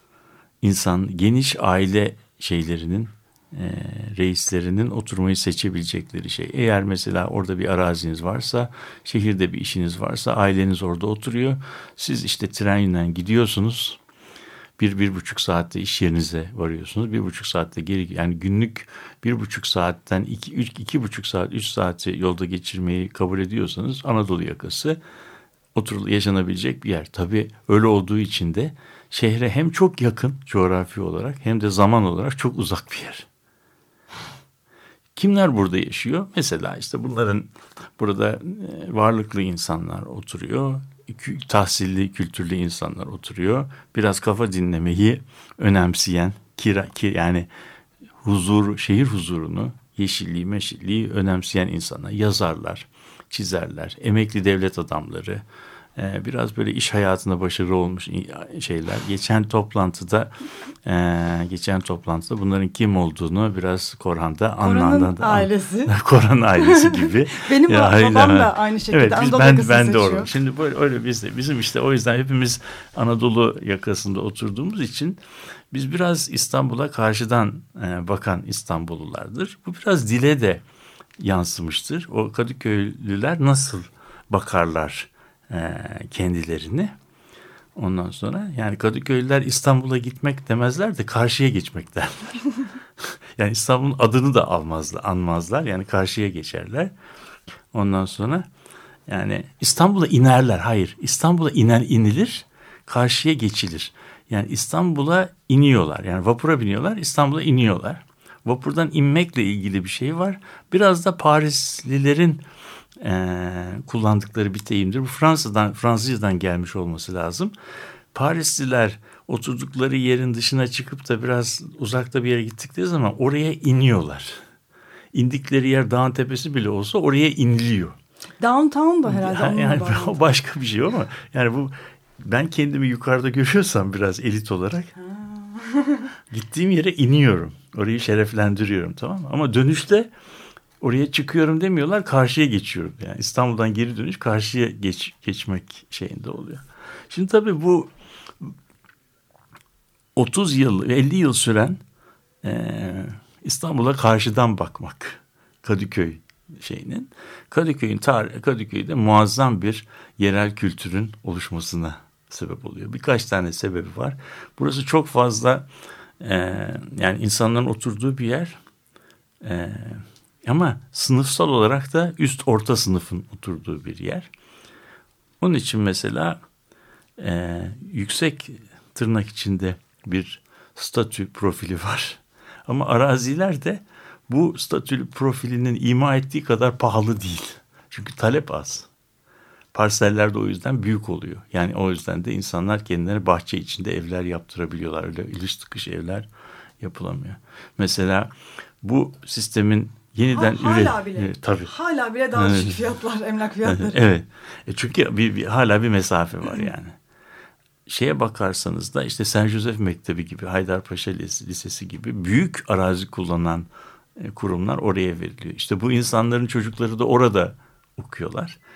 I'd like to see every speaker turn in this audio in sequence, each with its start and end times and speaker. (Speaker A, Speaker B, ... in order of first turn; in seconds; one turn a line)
Speaker A: 0.6-14.0
Speaker A: 14.8-25.0
Speaker A: 25.7-33.3
Speaker A: 35.1-47.5
Speaker A: 48.2-55.4
Speaker A: 56.0-60.3
Speaker A: 60.8-75.2
Speaker B: 64.6-65.9
Speaker B: 66.6-70.3
Speaker A: 75.7-80.6
Speaker A: 81.2-86.9
Speaker A: 87.8-92.4
Speaker A: 93.4-96.9
Speaker A: 97.7-98.5
Speaker A: 99.1-112.4
Speaker A: 113.0-117.5
Speaker A: 118.1-124.4
Speaker A: 125.1-128.0
Speaker B: 128.4-130.2
Speaker A: 129.1-134.9
Speaker B: 135.0-136.1
Speaker A: 136.3-140.1
Speaker A: 140.8-148.5
Speaker A: 150.1-151.8
Speaker A: 152.4-165.7
Speaker A: 166.2-168.6
Speaker A: 169.4-174.3
Speaker A: 175.4-176.4
Speaker A: 177.2-188.9
Speaker A: 189.7-196.3
Speaker A: 196.8-201.7
Speaker B: 200.3-204.0
Speaker A: 202.3-202.8
Speaker A: 203.6-206.9
Speaker A: 207.9-218.6